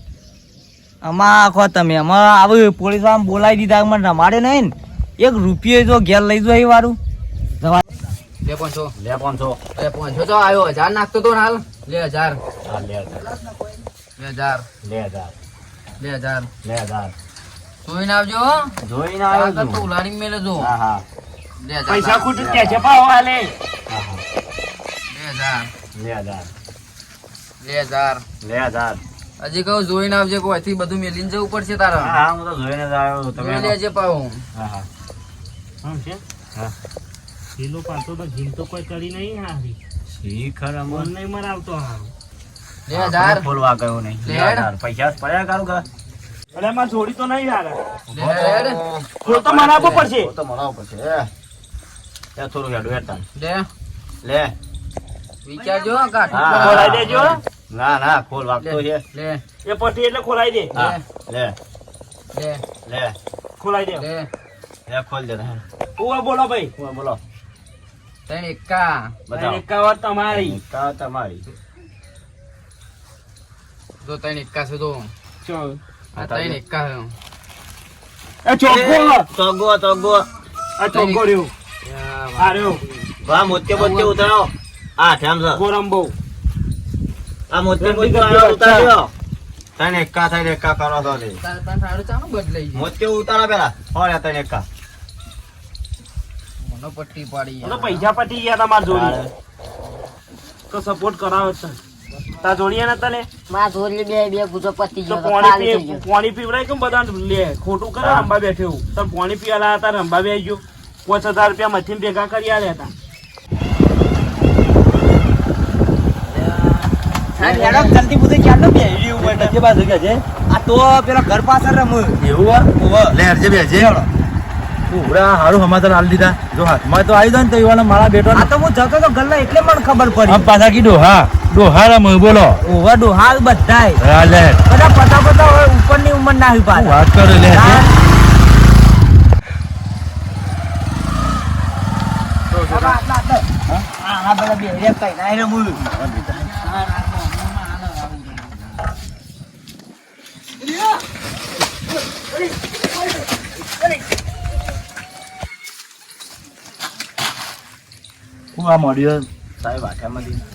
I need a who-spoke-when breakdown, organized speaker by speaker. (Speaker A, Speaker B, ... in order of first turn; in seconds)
Speaker A: 1.0-7.0, 55.7-56.0, 116.3-119.5, 120.5-122.2, 122.8-123.2, 123.8-124.0, 128.3-130.5, 132.6-134.0, 134.7-137.9, 142.7-143.5, 144.0-145.8, 146.4-148.4
Speaker B: 8.4-8.9, 9.8-12.4, 14.2-14.7, 16.0-16.5, 17.8-18.7, 19.3-20.7, 21.6-22.3, 25.1-25.7, 27.6-28.2, 29.4-32.2, 33.3-34.4, 42.9-43.5, 44.2-44.7, 48.1-48.8, 49.8-50.0, 53.3-53.7, 55.4-57.4, 58.6-59.4, 60.7-61.0, 62.3-62.6, 63.9-64.3, 68.3-69.2, 74.0-75.1, 76.2-77.1, 80.9-81.2, 83.7-84.2, 91.4-92.9, 96.6-98.0
Speaker C: 8.9-9.6, 12.6-13.4, 14.8-15.3, 16.6-17.1, 18.8-19.9, 20.6-21.0, 22.3-22.9, 23.9-24.2, 25.9-26.5, 28.4-29.0, 32.0-33.8, 34.5-34.9, 40.1-41.1, 42.9-45.8, 48.1-51.3, 52.4-53.2, 54.2-54.5, 56.3-59.0, 60.7-61.5, 62.9-63.1, 64.9-65.6, 66.8-67.2, 69.3-69.6, 70.3-71.4, 76.2-76.6, 78.7-80.3, 81.8-85.6, 87.5-89.1, 89.8-91.4, 92.7-94.7, 98.9-99.3, 108.0-108.3, 159.6-160.4
Speaker D: 21.9-23.5, 35.8-36.2, 37.6-39.8, 40.9-42.1, 46.5-47.8, 49.2-50.3, 56.6-57.4, 59.6-60.7, 63.6-64.0, 66.0-66.7, 69.3-70.6, 75.4-75.8, 78.4-79.2, 80.8-81.5, 82.4-82.8, 85.5-86.1, 87.8-88.9, 97.6-99.2, 100.7-101.8, 102.4-103.3, 105.1-112.9
Speaker E: 103.5-106.0
Speaker F: 117.4-118.0, 119.2-120.2, 122.2-123.9, 124.9-128.5, 130.3-132.6, 134.0-134.6, 136.7-137.9, 142.5-143.0, 145.8-146.5, 158.5-159.2